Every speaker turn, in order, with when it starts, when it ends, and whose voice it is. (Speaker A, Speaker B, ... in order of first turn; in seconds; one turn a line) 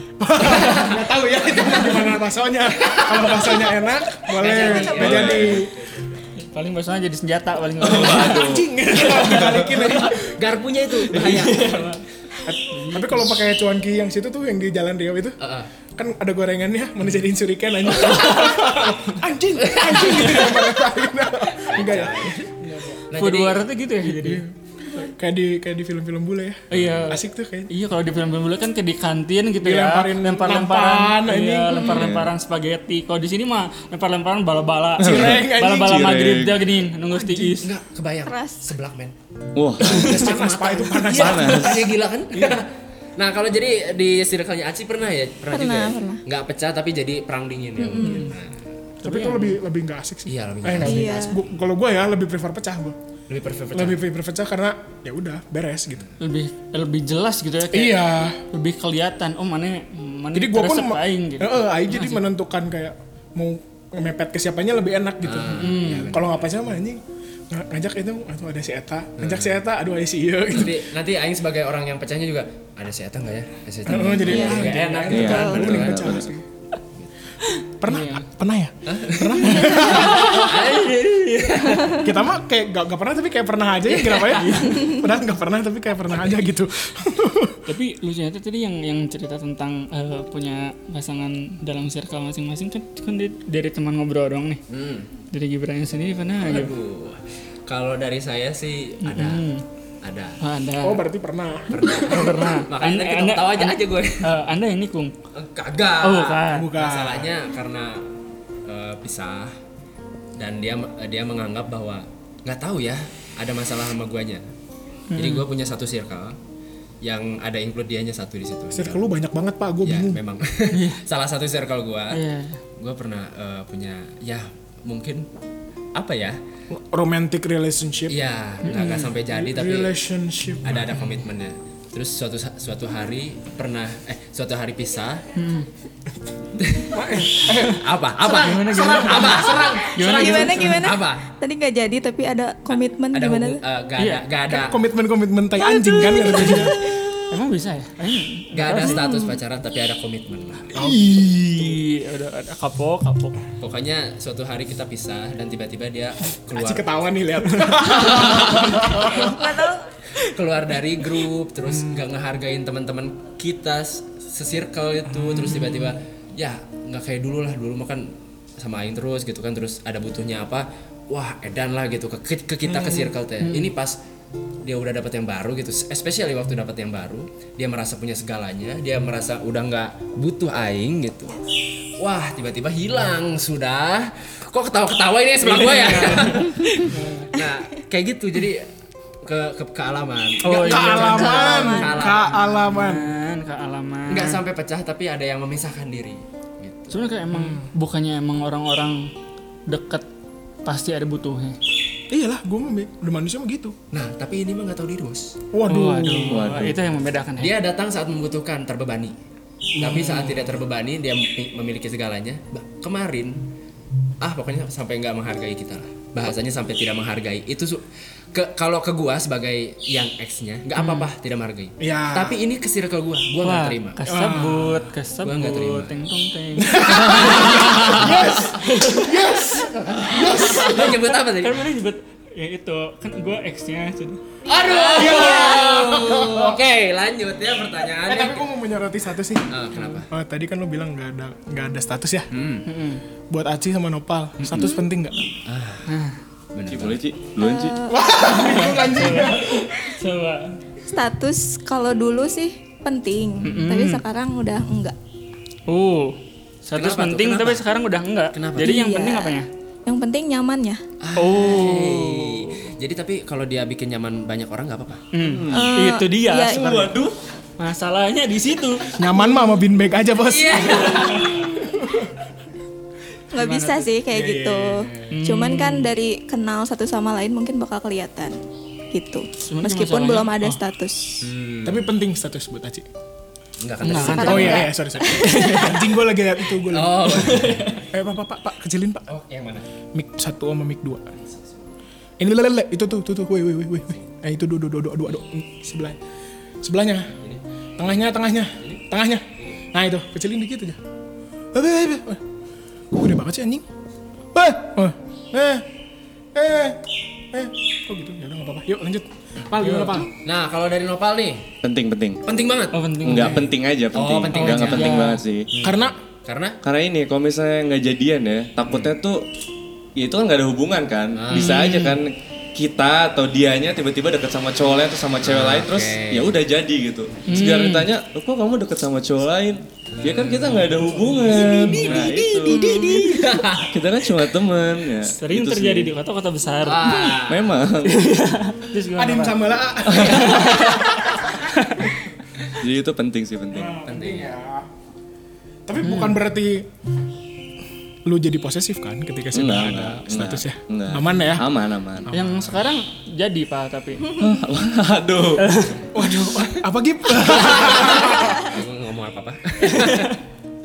Speaker A: 0.2-5.8
Speaker B: 0.4-2.1
Speaker B: 2.8-3.6
Speaker B: 4.2-6.2
Speaker C: 4.6-5.3
Speaker D: 5.0-5.7
Speaker E: 6.4-8.5
Speaker D: 7.8-8.8
Speaker A: 8.0-10.4
Speaker B: 9.1-11.9
Speaker E: 11.1-12.0
Speaker A: 12.4-15.4
Speaker E: 12.7-13.2
Speaker B: 15.4-15.7
Speaker A: 15.9-23.0
Speaker E: 18.1-18.9
Speaker B: 18.4-18.9
Speaker B: 19.6-20.6
Speaker B: 21.5-22.5
Speaker B: 23.1-23.7
Speaker E: 23.2-24.4
Speaker A: 24.1-27.7
Speaker E: 26.7-37.7
Speaker B: 26.7-27.0
Speaker A: 29.6-31.9
Speaker D: 31.8-32.3
Speaker A: 35.0-36.0
Speaker D: 35.0-36.6
Speaker A: 37.0-37.6
Speaker B: 37.6-39.1
Speaker C: 38.2-38.7
Speaker D: 39.5-40.2
Speaker B: 39.8-48.6
Speaker A: 39.8-42.6
Speaker D: 41.1-41.9
Speaker C: 45.5-46.2
Speaker C: 47.8-48.2
Speaker E: 48.0-48.3
Speaker E: 49.0-49.6
Speaker A: 49.0-53.0
Speaker B: 50.3-51.2
Speaker C: 50.8-51.4
Speaker B: 53.3-54.0
Speaker A: 53.7-56.1
Speaker E: 56.2-62.2
Speaker A: 57.7-58.4
Speaker A: 60.3-70.8
Speaker B: 65.2-66.5
Speaker E: 65.6-66.1
Speaker B: 69.2-69.6
Speaker B: 70.5-76.2
Speaker A: 73.8-76.4
Speaker C: 74.1-75.8
Speaker D: 75.1-76.3
Speaker E: 77.4-78.3
Speaker A: 77.8-80.5
Speaker B: 78.8-82.0
Speaker E: 79.4-82.0
Speaker A: 81.9-87.6
Speaker B: 83.9-84.5
Speaker E: 84.3-85.0
Speaker E: 87.7-94.6
Speaker B: 94.7-95.1
Speaker E: 95.3-96.7
Speaker B: 96.4-99.4
Speaker E: 99.0-99.6
Speaker B: 100.0-100.4
Speaker E: 100.4-101.0
Speaker A: 100.8-102.2
Speaker B: 101.7-104.3
Speaker E: 101.8-105.1
Speaker B: 105.3-108.1
Speaker E: 106.0-106.7
Speaker A: 106.5-107.3
Speaker B: 108.6-109.5
Speaker B: 110.4-114.5
Speaker E: 115.1-115.5
Speaker B: 115.2-116.4
Speaker B: 117.0-119.1
Speaker A: 118.7-120.2
Speaker B: 119.8-122.2
Speaker E: 120.7-121.0
Speaker E: 122.1-122.6
Speaker B: 122.8-125.3
Speaker B: 125.9-126.4
Speaker A: 126.7-128.2
Speaker B: 128.1-130.0
Speaker E: 128.6-129.1
Speaker A: 129.3-131.1
Speaker B: 130.6-135.2
Speaker E: 135.3-135.7
Speaker B: 136.6-137.0
Speaker A: 136.9-139.8
Speaker E: 137.3-137.7
Speaker B: 137.7-141.3
Speaker E: 138.3-140.9
Speaker C: 140.0-143.6
Speaker B: 142.7-144.8
Speaker E: 144.0-144.2
Speaker A: 144.4-146.8
Speaker C: 145.6-147.0
Speaker E: 147.3-149.1
Speaker B: 148.5-150.7
Speaker C: 148.7-149.4
Speaker A: 150.7-151.8
Speaker E: 150.8-153.4
Speaker B: 153.6-157.0
Speaker A: 156.5-159.3
Speaker B: 157.7-159.5
Speaker C: 158.9-159.8
Speaker B: 160.1-174.0
Speaker A: 172.7-173.1
Speaker E: 173.4-173.7
Speaker B: 174.6-181.4
Speaker B: 182.0-188.7
Speaker E: 185.4-187.3
Speaker B: 189.2-192.4
Speaker E: 190.4-194.4
Speaker A: 190.5-193.1
Speaker C: 191.0-192.1
Speaker B: 194.1-197.0
Speaker E: 196.9-199.1
Speaker A: 197.3-197.7
Speaker E: 199.7-200.1
Speaker E: 200.6-201.6
Speaker A: 202.1-203.7
Speaker B: 203.9-205.4
Speaker A: 205.5-206.4
Speaker E: 205.7-207.6
Speaker D: 206.3-206.8
Speaker B: 207.4-209.2
Speaker B: 209.8-213.5
Speaker A: 209.8-210.2
Speaker E: 209.8-210.4
Speaker B: 214.2-224.0
Speaker E: 220.8-221.1
Speaker A: 221.8-222.4
Speaker E: 223.4-229.5
Speaker A: 224.0-224.8
Speaker B: 225.2-225.9
Speaker A: 226.6-231.0
Speaker B: 226.9-228.5
Speaker B: 229.3-231.7
Speaker E: 230.3-234.2
Speaker B: 234.4-238.5
Speaker A: 234.8-236.6
Speaker C: 235.0-235.6
Speaker A: 238.1-239.5
Speaker B: 239.5-240.1
Speaker A: 240.1-242.3
Speaker B: 242.3-242.7
Speaker E: 242.6-243.0
Speaker A: 243.3-245.2
Speaker B: 244.4-244.7
Speaker C: 244.5-244.8
Speaker B: 245.4-245.9
Speaker E: 245.8-246.2
Speaker B: 246.5-247.0
Speaker D: 246.7-247.8
Speaker C: 247.4-248.0
Speaker A: 247.9-249.9
Speaker E: 248.2-250.6
Speaker C: 250.9-254.9
Speaker E: 253.4-254.0
Speaker E: 255.7-259.5
Speaker B: 256.7-257.6
Speaker B: 258.3-258.8
Speaker C: 258.6-260.8
Speaker B: 261.0-265.0
Speaker E: 261.1-262.5
Speaker E: 265.1-266.9
Speaker D: 265.2-265.8
Speaker C: 265.5-267.0
Speaker D: 266.4-267.1
Speaker E: 267.6-269.0
Speaker A: 268.9-272.1
Speaker B: 270.3-271.5
Speaker C: 273.3-278.4
Speaker E: 273.3-273.9
Speaker A: 274.1-275.1
Speaker E: 275.1-275.9
Speaker C: 278.9-281.2
Speaker E: 279.4-280.6
Speaker B: 281.2-281.9
Speaker A: 281.6-282.9
Speaker B: 283.6-284.7
Speaker E: 283.8-285.7
Speaker C: 284.0-285.8
Speaker A: 284.0-289.1
Speaker B: 286.7-287.8
Speaker E: 287.2-287.7
Speaker B: 289.1-289.6
Speaker A: 289.9-291.1
Speaker B: 291.2-291.7
Speaker A: 292.2-296.0
Speaker A: 296.6-297.2
Speaker A: 297.8-300.8
Speaker A: 301.5-302.2
Speaker A: 302.9-303.6
Speaker A: 304.3-305.6
Speaker A: 306.3-310.1
Speaker E: 309.6-310.1
Speaker B: 310.2-311.5
Speaker D: 311.6-312.2
Speaker B: 312.2-316.6
Speaker E: 312.7-313.5
Speaker D: 313.0-315.5
Speaker E: 314.3-315.2
Speaker A: 315.6-315.9
Speaker D: 316.6-319.2
Speaker B: 318.6-318.9
Speaker D: 320.0-332.7
Speaker B: 321.1-321.6
Speaker E: 321.3-322.0
Speaker B: 325.2-326.4
Speaker E: 327.3-327.9
Speaker B: 329.9-333.7
Speaker E: 332.5-333.4
Speaker A: 332.7-333.1
Speaker D: 333.7-335.9
Speaker E: 335.0-337.2
Speaker B: 336.6-337.5
Speaker D: 337.2-338.0
Speaker E: 337.8-339.4
Speaker A: 338.9-341.5
Speaker D: 339.9-340.2
Speaker E: 340.0-342.0
Speaker B: 340.4-340.9
Speaker D: 342.6-343.7
Speaker A: 343.5-344.7
Speaker B: 343.9-344.3
Speaker A: 345.7-346.7
Speaker E: 345.8-346.2
Speaker A: 348.0-351.5
Speaker D: 349.3-352.1
Speaker A: 352.1-352.6
Speaker E: 352.1-354.2
Speaker D: 354.2-355.5
Speaker E: 355.4-355.9
Speaker A: 355.9-358.5
Speaker B: 357.3-360.2
Speaker E: 359.7-360.1